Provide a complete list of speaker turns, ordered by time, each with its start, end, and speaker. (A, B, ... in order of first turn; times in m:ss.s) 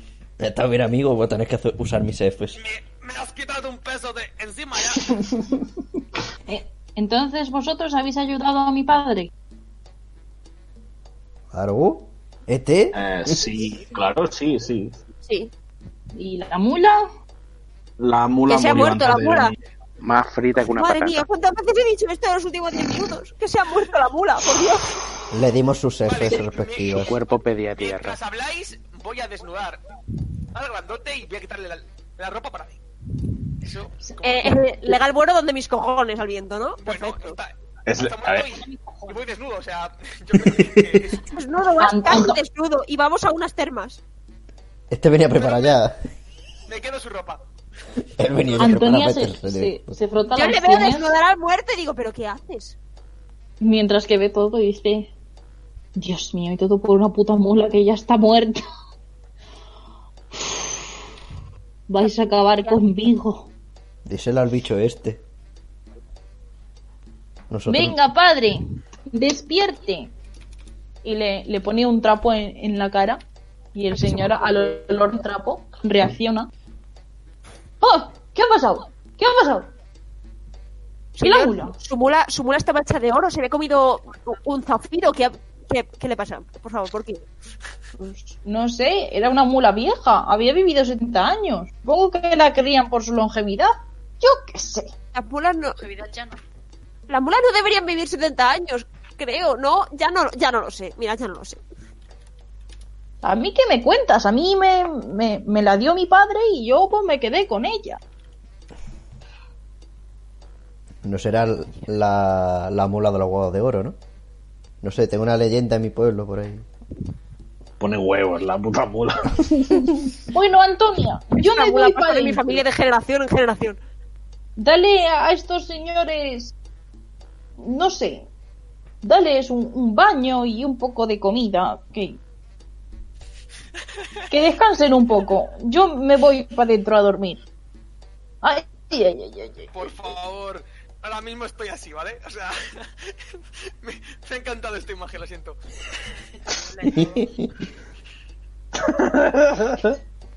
0:00.4-0:02.6 A
0:02.5-0:05.0 B
0:06.5-0:09.3 C
0:11.5-0:13.4 A
0:12.9-0:15.0 D
0:16.1-0:17.1 C
0:18.0-0:19.6 D
0:18.5-0:19.5 E
0:20.0-0:21.2 F
0:20.6-0:24.9 E
0:25.3-0:27.1 A
0:26.0-0:27.1 B
0:26.9-0:28.2 F
0:27.8-0:29.8 B
0:30.5-0:32.8 B
0:33.6-0:34.6 B
0:34.2-0:37.4 E
0:36.8-0:41.3 B
0:37.8-0:38.5 D
0:38.6-0:39.2 G
0:40.4-0:41.1 A
0:41.3-0:44.0 E
0:41.8-0:42.4 C
0:44.9-0:46.0 A
0:45.3-0:45.8 B
0:46.7-0:47.4 B
0:48.2-0:50.0 A
0:48.4-0:48.8 B
0:48.6-0:51.1 C
0:50.3-0:52.8 E
0:53.6-0:55.1 C
0:56.0-0:58.6 C
1:00.4-1:00.7 C
1:01.9-1:03.5 C
1:04.0-1:05.2 A
1:07.5-1:08.0 A
1:07.7-1:10.1 C
1:11.0-1:13.2 C
1:13.7-1:16.5 C
1:17.8-1:19.7 C
1:21.2-1:27.2 E
1:21.2-1:21.8 C
1:28.0-1:34.9 C
1:35.1-1:35.8 E
1:35.8-1:36.4 G
1:37.1-1:41.6 E
1:43.2-1:48.0 C
1:51.0-1:54.0 A
1:54.8-1:56.6 A
1:57.8-2:00.1 D
2:00.2-2:02.6 C
2:01.4-2:03.8 E
2:04.6-2:06.5 C
2:07.6-2:08.3 C
2:09.0-2:12.2 C
2:14.3-2:17.4 C
2:18.4-2:19.7 C
2:19.7-2:25.6 B
2:26.5-2:27.3 G
2:28.8-2:30.0 D